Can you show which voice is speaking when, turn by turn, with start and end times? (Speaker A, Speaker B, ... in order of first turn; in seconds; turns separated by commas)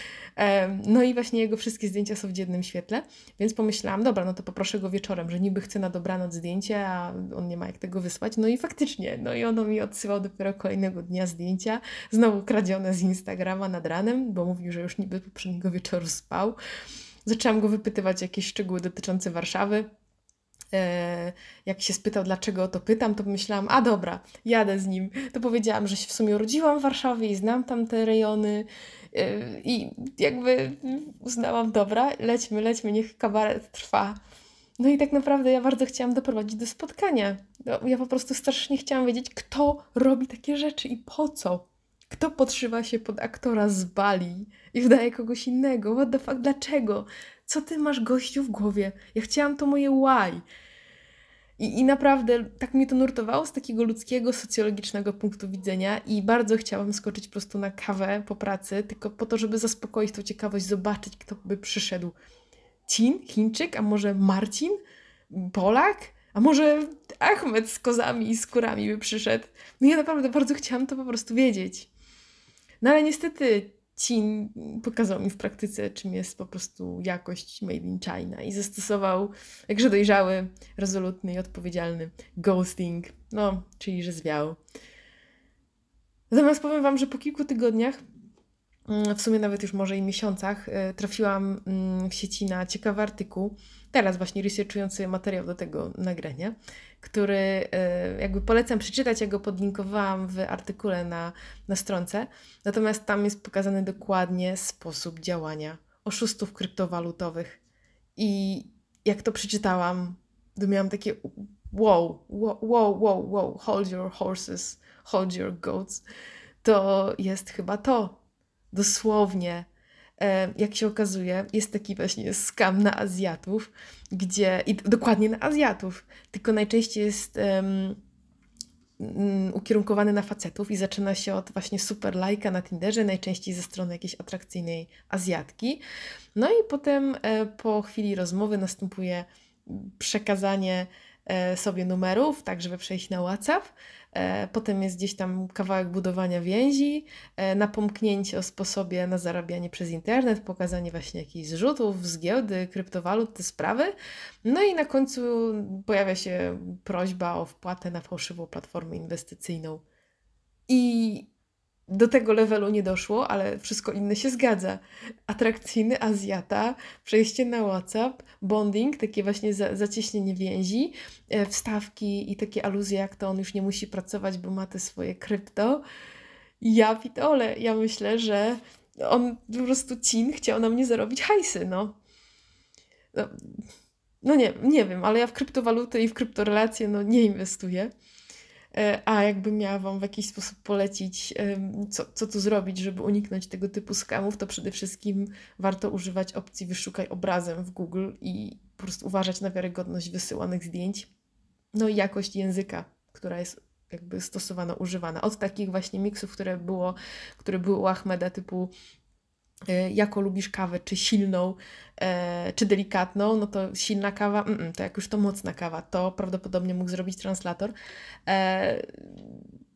Speaker A: 0.4-16.6, Speaker A: 17.2-19.9, Speaker A: 20.7-34.2, Speaker A: 34.8-50.4, Speaker A: 51.6-62.1, Speaker A: 62.9-64.8, Speaker A: 65.3-71.9, Speaker A: 72.8-84.6, Speaker A: 86.3-88.0, Speaker A: 88.9-107.6, Speaker A: 108.2-116.0, Speaker A: 116.6-118.2, Speaker A: 118.7-119.7, Speaker A: 120.2-128.0, Speaker A: 129.0-135.8, Speaker A: 136.3-153.9, Speaker A: 154.4-159.8, Speaker A: 160.7-161.3, Speaker A: 161.9-175.8, Speaker A: 176.6-181.9, Speaker A: 183.1-183.6, Speaker A: 184.2-187.9, Speaker A: 188.7-201.1, Speaker A: 201.7-208.7, Speaker A: 209.7-217.7, Speaker A: 218.3-219.4